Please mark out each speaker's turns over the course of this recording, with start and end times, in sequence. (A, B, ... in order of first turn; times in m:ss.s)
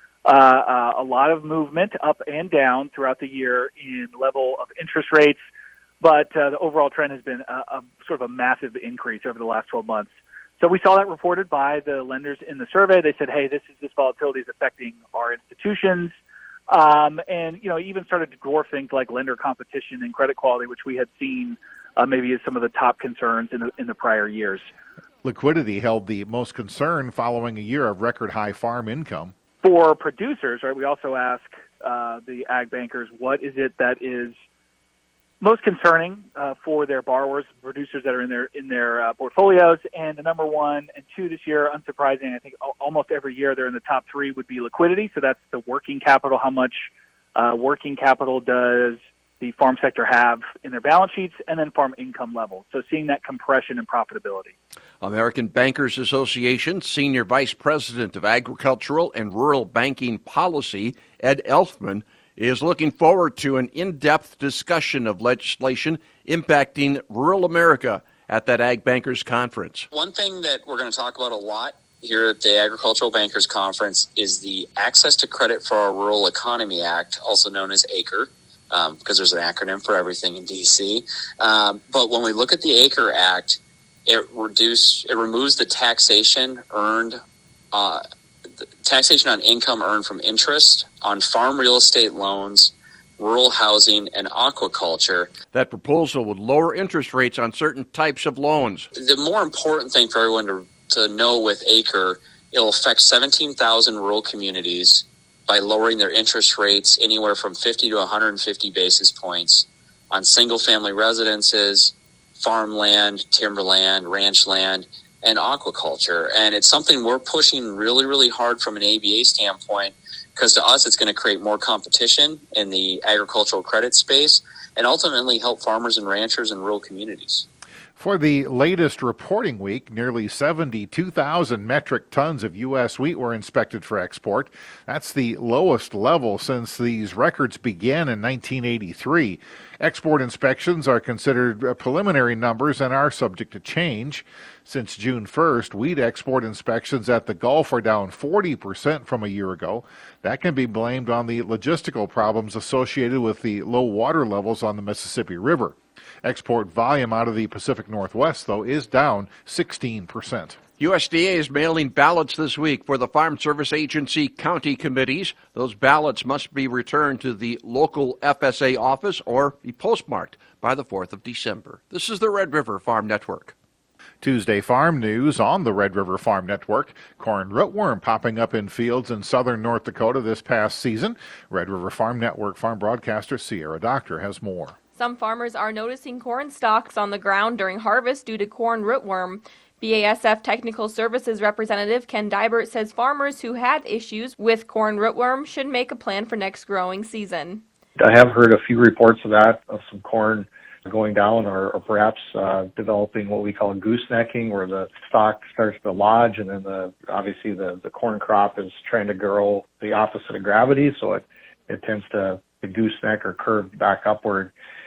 0:00.2-0:05.4 A
0:06.0-0:16.1 A
0:16.7-0:24.7 A
0:25.2-0:29.3 B
0:29.6-0:34.4 A
0:35.4-0:54.5 A
0:55.0-1:09.9 C
1:09.9-1:27.2 D
1:27.7-1:28.0 D
1:28.8-1:35.3 D
1:35.5-1:38.9 C
1:38.9-2:07.4 D
2:08.0-2:40.6 B
2:40.8-2:53.5 C
2:54.2-3:04.8 B
3:04.9-3:17.6 E
3:18.0-3:34.5 F